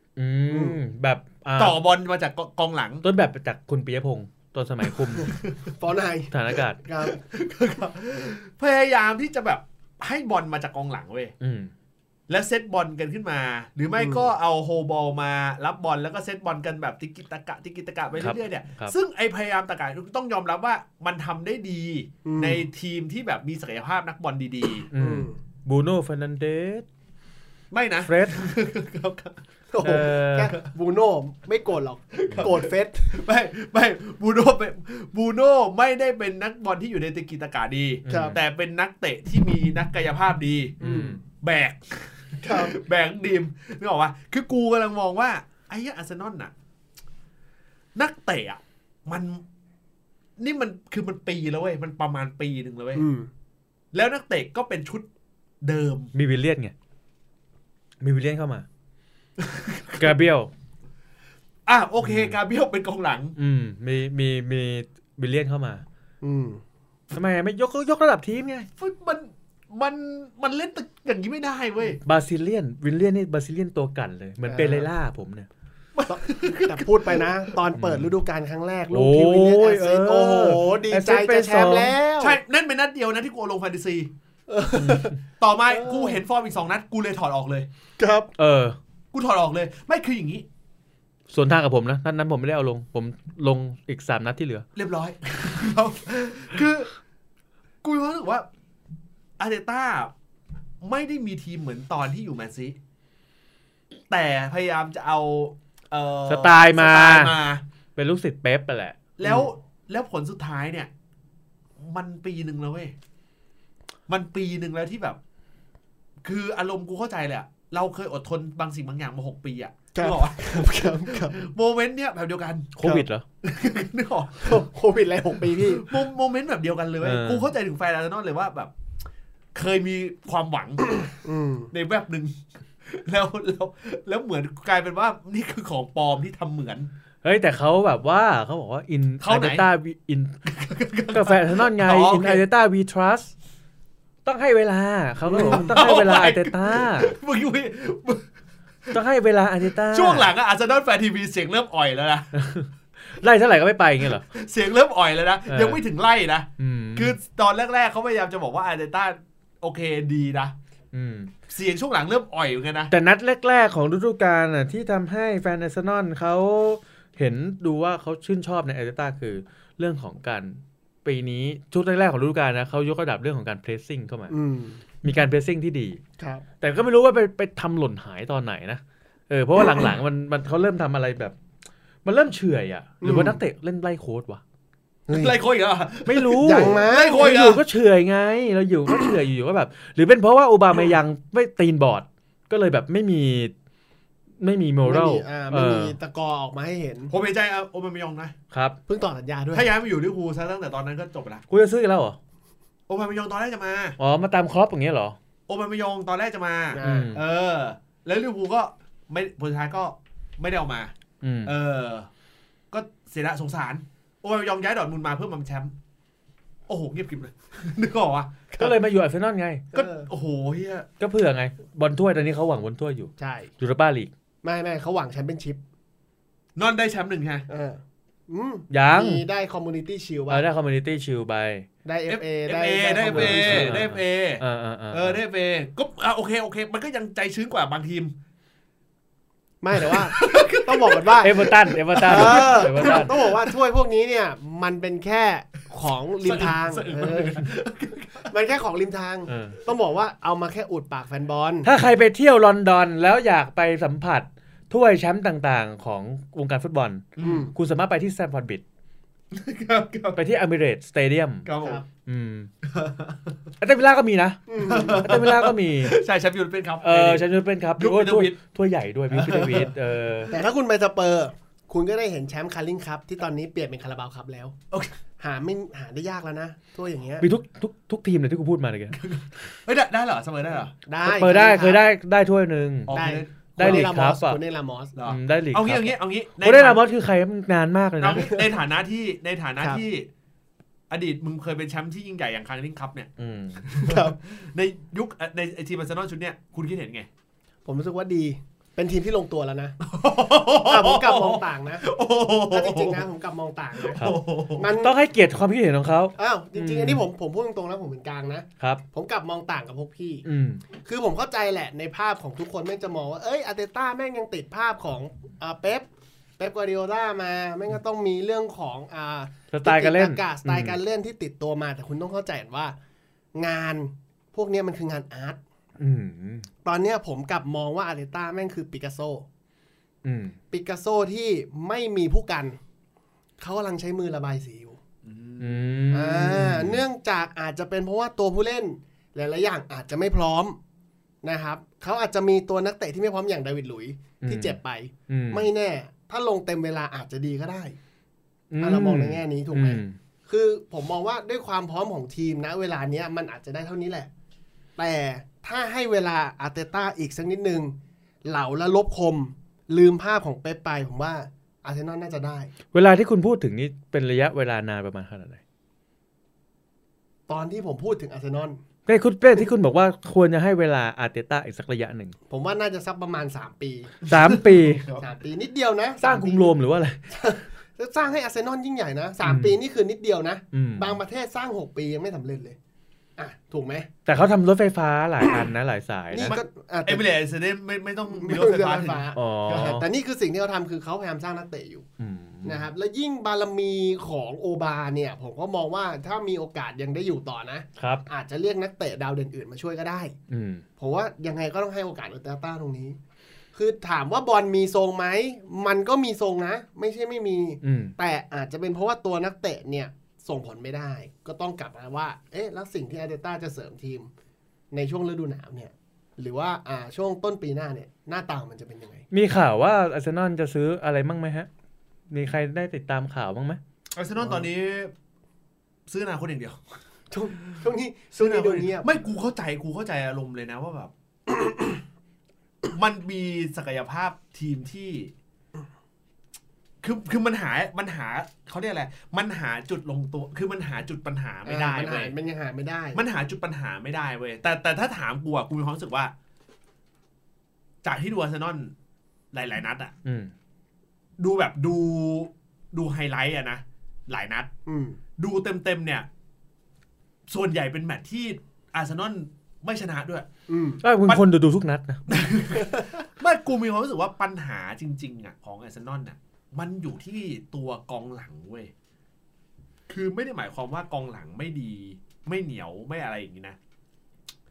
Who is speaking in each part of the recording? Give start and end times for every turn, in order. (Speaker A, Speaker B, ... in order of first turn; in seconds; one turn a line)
Speaker A: 0.2-1.8
Speaker B: 0.5-0.8
Speaker C: 1.6-3.0
Speaker A: 3.0-5.3
Speaker C: 5.2-5.6
Speaker B: 5.8-7.2
Speaker A: 6.3-6.8
Speaker C: 7.0-11.3
Speaker A: 11.4-11.7
Speaker C: 12.3-24.9
Speaker B: 14.0-14.3
Speaker A: 18.2-18.9
Speaker B: 22.2-22.6
Speaker A: 24.9-26.9
Speaker B: 25.0-25.4
Speaker C: 27.7-29.4
Speaker A: 28.1-28.4
Speaker B: 29.7-33.2
Speaker A: 29.8-30.5
Speaker C: 32.1-46.5
Speaker A: 38.0-38.4
Speaker B: 38.1-38.4
Speaker A: 40.8-41.2
Speaker B: 40.8-41.2
Speaker B: 42.4-42.8
Speaker C: 48.0-49.4
Speaker C: 50.4-53.0
Speaker B: 53.0-53.3
Speaker C: 53.9-55.1
Speaker C: 55.6-56.1
Speaker A: 56.1-56.7
Speaker A: 58.0-58.7
Speaker C: 59.4-60.1
Speaker A: 60.0-60.5
Speaker C: 61.7-63.4
Speaker A: 62.0-62.4
Speaker A: 63.4-65.8
Speaker B: 66.2-66.6
Speaker A: 67.1-68.7
Speaker C: 68.8-72.0
Speaker A: 72.0-75.5
Speaker B: 74.5-74.9
Speaker C: 76.0-77.5
Speaker B: 76.1-82.4
Speaker A: 77.8-78.1
Speaker A: 78.9-81.9
Speaker C: 82.2-84.1
Speaker B: 84.5-85.2
Speaker A: 84.8-85.2
Speaker C: 85.4-87.7
Speaker B: 85.7-86.2
Speaker B: 88.0-88.3
Speaker A: 88.4-88.8
Speaker C: 89.1-90.5
Speaker A: 91.3-94.7
Speaker C: 94.8-96.9
Speaker C: 97.8-98.5
Speaker C: 99.4-100.1
Speaker C: 100.8-102.8
Speaker C: 104.1-107.6
Speaker A: 106.3-107.3
Speaker A: 108.0-109.0
Speaker C: 109.2-110.9
Speaker B: 109.2-109.5
Speaker C: 111.8-112.9
Speaker C: 114.1-115.2
Speaker C: 116.2-124.7
Speaker B: 120.0-121.3
Speaker A: 122.8-123.2
Speaker B: 124.4-126.0
Speaker C: 125.5-128.7
Speaker A: 127.0-127.5
Speaker C: 129.6-131.1
Speaker B: 131.1-131.7
Speaker C: 131.7-136.9
Speaker A: 137.2-140.3
Speaker C: 139.2-139.6
Speaker C: 140.5-142.4
Speaker A: 141.1-143.3
Speaker A: 144.2-147.2
Speaker B: 145.3-145.8
Speaker C: 145.4-148.3
Speaker A: 148.9-150.3
Speaker C: 149.8-152.4
Speaker A: 152.3-154.2
Speaker C: 154.2-160.5
Speaker A: 155.5-155.8
Speaker A: 156.6-157.2
Speaker A: 160.9-161.3
Speaker C: 161.5-162.9
Speaker A: 162.9-174.3
Speaker B: 174.3-174.8
Speaker A: 175.0-176.0
Speaker B: 176.2-176.4
Speaker A: 176.6-181.3
Speaker A: 182.1-184.4
Speaker B: 183.0-183.4
Speaker B: 185.1-185.4
Speaker C: 185.1-187.6
Speaker A: 186.1-193.5
Speaker B: 186.4-187.4
Speaker A: 194.4-196.0
Speaker B: 194.8-197.1
Speaker C: 197.1-198.3
Speaker A: 198.5-198.8
Speaker B: 198.9-199.7
Speaker C: 199.5-201.4
Speaker A: 201.5-202.2
Speaker C: 202.9-204.0
Speaker A: 204.0-205.2
Speaker C: 205.5-210.9
Speaker B: 206.7-207.1
Speaker A: 206.8-207.2
Speaker A: 211.2-211.5
Speaker C: 211.4-212.1
Speaker C: 212.7-215.7
Speaker C: 216.7-218.7
Speaker A: 218.6-219.7
Speaker B: 219.7-220.1
Speaker C: 219.7-220.9
Speaker A: 221.0-224.1
Speaker B: 223.2-223.5
Speaker B: 224.4-225.6
Speaker C: 226.6-227.5
Speaker B: 227.5-230.4
Speaker A: 228.7-229.2
Speaker A: 230.3-231.7
Speaker B: 231.8-233.8
Speaker C: 232.1-238.1
Speaker A: 233.1-235.2
Speaker B: 239.6-241.5
Speaker C: 239.8-243.5
Speaker A: 241.2-243.1
Speaker B: 242.0-247.5
Speaker C: 246.2-248.3
Speaker B: 248.3-251.7
Speaker A: 249.3-249.6
Speaker A: 251.6-258.6
Speaker C: 257.2-257.5
Speaker B: 257.2-257.5
Speaker C: 259.3-260.2
Speaker A: 260.2-261.5
Speaker C: 261.5-261.8
Speaker A: 262.1-262.5
Speaker C: 262.7-263.2
Speaker A: 263.6-266.0
Speaker B: 264.5-265.1
Speaker C: 264.7-268.4
Speaker A: 266.8-270.3
Speaker C: 269.1-269.7
Speaker B: 270.3-274.6
Speaker B: 275.2-277.3
Speaker A: 277.2-279.0
Speaker C: 279.0-280.7
Speaker B: 280.9-281.8
Speaker A: 281.0-283.0
Speaker C: 282.9-283.9
Speaker B: 282.9-284.9
Speaker A: 283.6-284.4
Speaker C: 285.0-286.8
Speaker A: 285.1-288.4
Speaker C: 288.0-290.1
Speaker C: 290.9-293.1
Speaker A: 293.2-293.7
Speaker C: 293.6-297.1
Speaker B: 293.8-294.2
Speaker B: 297.6-299.8
Speaker C: 299.8-303.1
Speaker B: 300.6-301.9
Speaker B: 302.5-305.0
Speaker C: 303.8-304.7
Speaker A: 304.7-307.0
Speaker B: 306.2-310.2
Speaker A: 310.2-310.6
Speaker B: 310.9-315.9
Speaker B: 316.4-322.8
Speaker A: 319.5-320.8
Speaker B: 323.4-325.4
Speaker A: 325.8-326.5
Speaker B: 326.6-329.3
Speaker A: 330.0-330.4
Speaker B: 330.5-332.6
Speaker B: 333.4-334.8
Speaker C: 335.1-335.7
Speaker A: 335.4-336.8
Speaker B: 335.9-340.6
Speaker B: 341.2-347.8
Speaker A: 344.2-344.6
Speaker A: 345.1-345.5
Speaker A: 348.5-350.0
Speaker B: 348.6-354.1
Speaker B: 354.8-362.5
Speaker A: 362.7-365.4
Speaker B: 367.3-368.6
Speaker A: 368.9-372.2
Speaker B: 372.3-374.0
Speaker C: 374.1-375.0
Speaker A: 374.1-374.9
Speaker B: 374.9-376.5
Speaker A: 376.0-377.0
Speaker B: 377.1-382.6
Speaker A: 379.2-379.6
Speaker A: 380.5-381.0
Speaker B: 383.2-383.9
Speaker A: 384.1-386.4
Speaker B: 386.1-387.1
Speaker C: 386.2-389.1
Speaker B: 388.1-391.9
Speaker A: 389.1-389.9
Speaker A: 392.0-392.7
Speaker B: 392.4-400.2
Speaker A: 397.8-398.1
Speaker A: 400.3-400.6
Speaker B: 400.8-403.0
Speaker B: 403.5-414.1
Speaker A: 407.6-407.9
Speaker B: 414.7-419.1
Speaker A: 419.1-421.5
Speaker A: 422.1-423.6
Speaker C: 424.0-424.9
Speaker B: 424.2-424.5
Speaker C: 425.9-426.6
Speaker B: 427.1-428.9
Speaker C: 428.2-430.9
Speaker B: 431.3-431.8
Speaker C: 432.7-435.1
Speaker C: 436.8-442.1
Speaker B: 441.4-443.0
Speaker C: 442.9-446.1
Speaker C: 447.8-448.7
Speaker C: 449.3-449.9
Speaker A: 450.1-450.3
Speaker C: 451.2-454.5
Speaker B: 454.7-455.0
Speaker C: 455.2-456.1
Speaker C: 457.3-460.3
Speaker B: 460.5-460.8
Speaker A: 460.8-462.0
Speaker C: 462.1-468.7
Speaker B: 462.6-462.9
Speaker C: 469.9-473.6